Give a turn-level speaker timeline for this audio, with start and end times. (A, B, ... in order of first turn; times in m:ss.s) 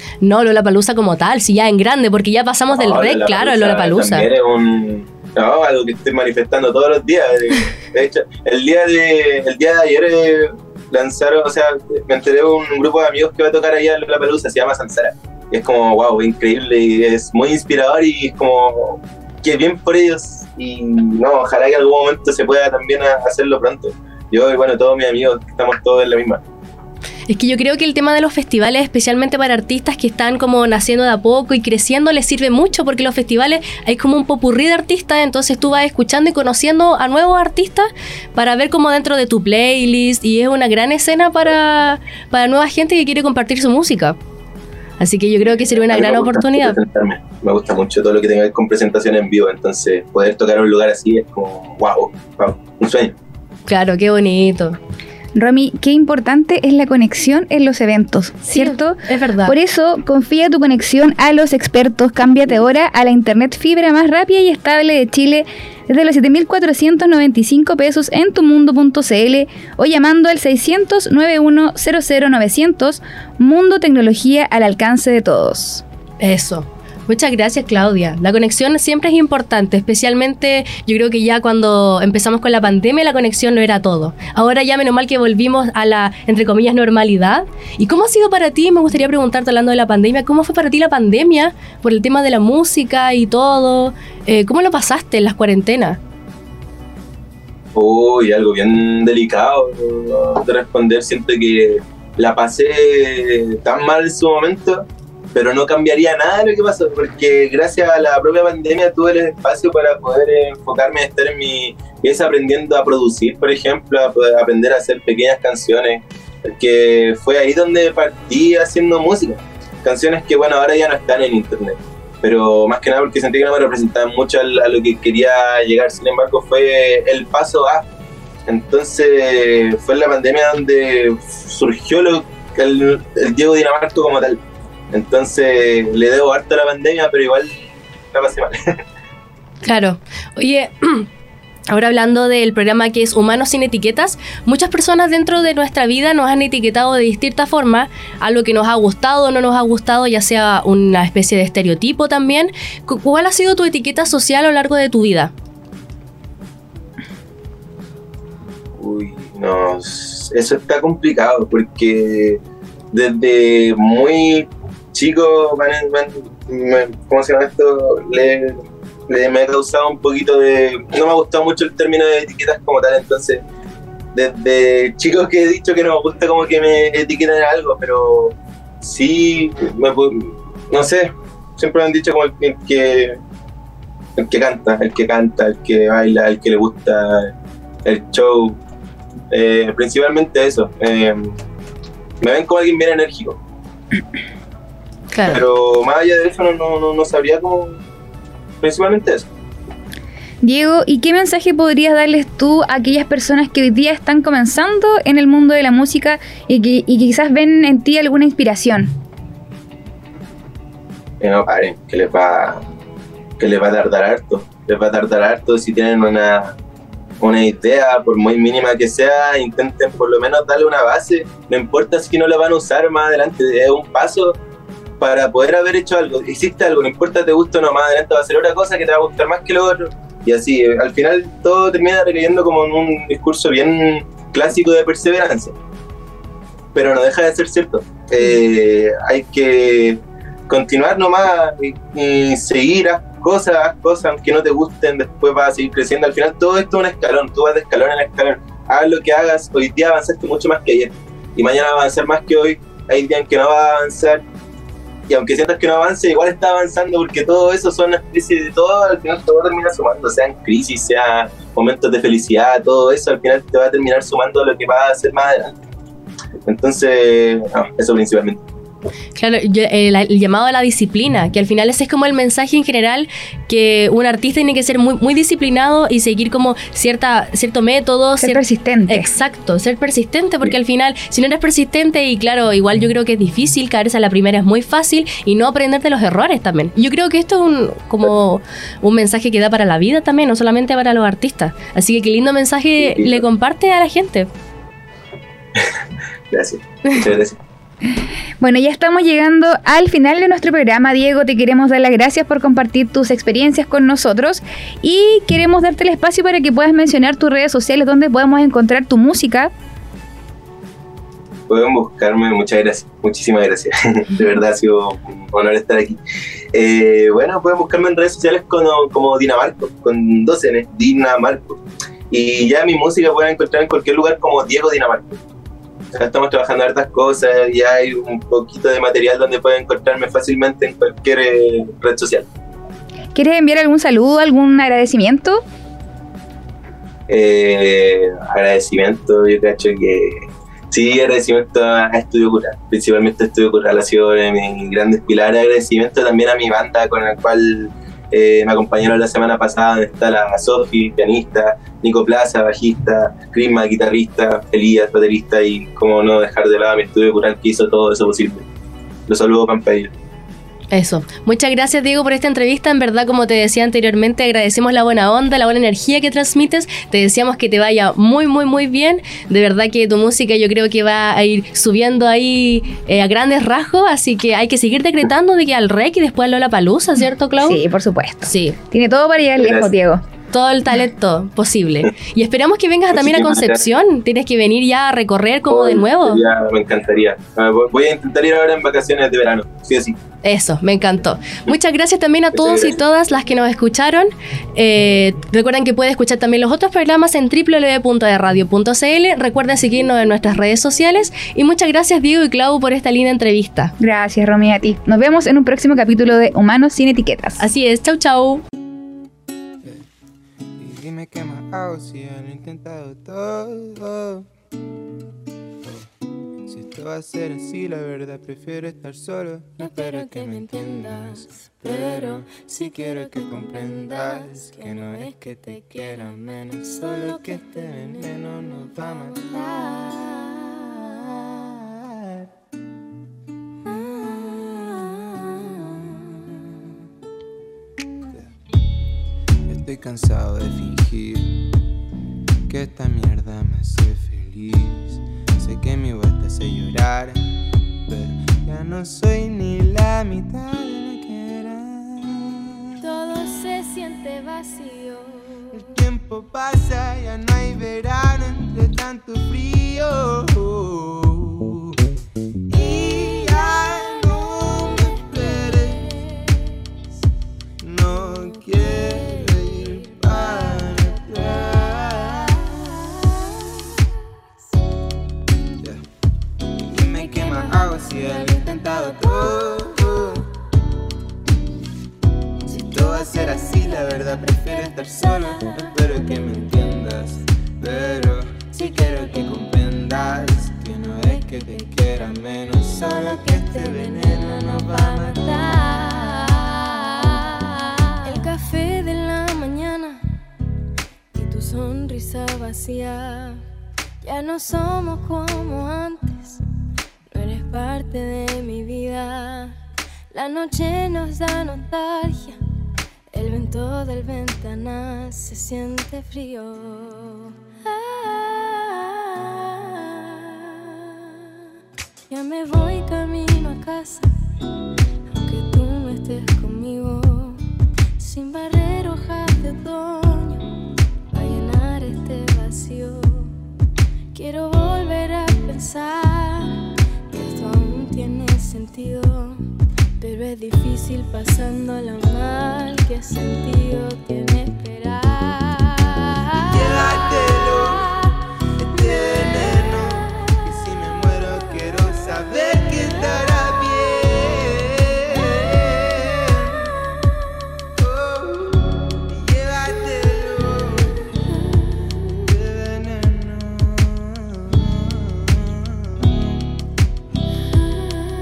0:00.2-0:04.3 A
0:02.7-0:26.4 B
0:27.3-0:44.2 A
0:45.0-0:46.8 A
0:45.5-0:53.2 B
0:53.7-0:54.8 A
0:55.4-1:15.8 C
0:58.5-0:59.5 A
1:16.2-1:36.0 A
1:37.8-2:07.9 B
2:08.5-2:14.4 B
2:14.9-2:18.8 B
2:19.6-2:21.1 A
2:21.7-2:35.3 A
2:38.8-2:42.4 B
2:42.9-2:53.4 B
2:54.1-3:03.2 B
3:04.2-3:07.3 B
3:07.8-3:08.6 B
3:09.3-3:11.4 B
3:12.2-3:13.4 B
3:15.1-3:15.4 A
3:15.3-3:17.8 B
3:18.6-3:19.3 B
3:20.4-3:29.0 C
3:31.2-3:32.6 B
3:33.4-3:36.6 B
3:37.2-3:44.4 B
3:45.0-3:55.5 B
3:56.7-4:14.2 B
4:15.1-4:25.6 B
4:26.4-4:28.4 B
4:29.2-4:54.3 A
4:38.2-4:39.1 C
4:52.8-4:53.2 B
4:56.3-4:57.4 B
4:58.4-5:09.5 C
5:11.5-5:16.0 B
5:16.5-5:25.2 B
5:26.0-5:32.3 B
5:33.1-5:35.4 C
5:37.1-5:58.5 B
5:59.1-5:59.9 B
6:00.7-6:17.6 A
6:17.4-6:20.0 C
6:18.2-6:18.6 A
6:19.4-6:19.7 B
6:20.3-6:26.2 A
6:22.9-6:23.6 B
6:25.5-6:30.0 B
6:30.2-6:43.7 A
6:32.3-6:32.8 B
6:43.8-6:47.4 C
6:47.4-6:48.4 A
6:50.6-6:54.3 D
6:56.5-7:10.0 D
6:59.6-7:10.8 E
7:10.8-7:12.3 D
7:13.6-7:16.2 E
7:19.5-7:21.4 D
7:22.5-7:27.3 D
7:27.9-7:32.8 D
7:32.8-7:35.6 E
7:35.5-7:41.8 D
7:42.5-7:46.0 D
7:47.6-7:53.0 D
7:56.7-8:00.3 D
8:02.5-8:16.2 D
8:12.9-8:16.6 E
8:18.0-8:20.0 E
8:21.1-8:23.4 E
8:24.0-8:26.4 E
8:27.1-8:29.6 E
8:30.1-8:32.4 E
8:33.1-8:41.4 E
8:42.1-8:44.1 E
8:45.1-8:47.4 E
8:48.0-8:50.5 E
8:51.1-8:53.3 E
8:54.1-8:59.4 E
9:00.0-9:06.9 E
9:06.3-9:08.0 D
9:08.6-9:16.7 D
9:17.8-9:21.2 D
9:22.0-9:26.6 D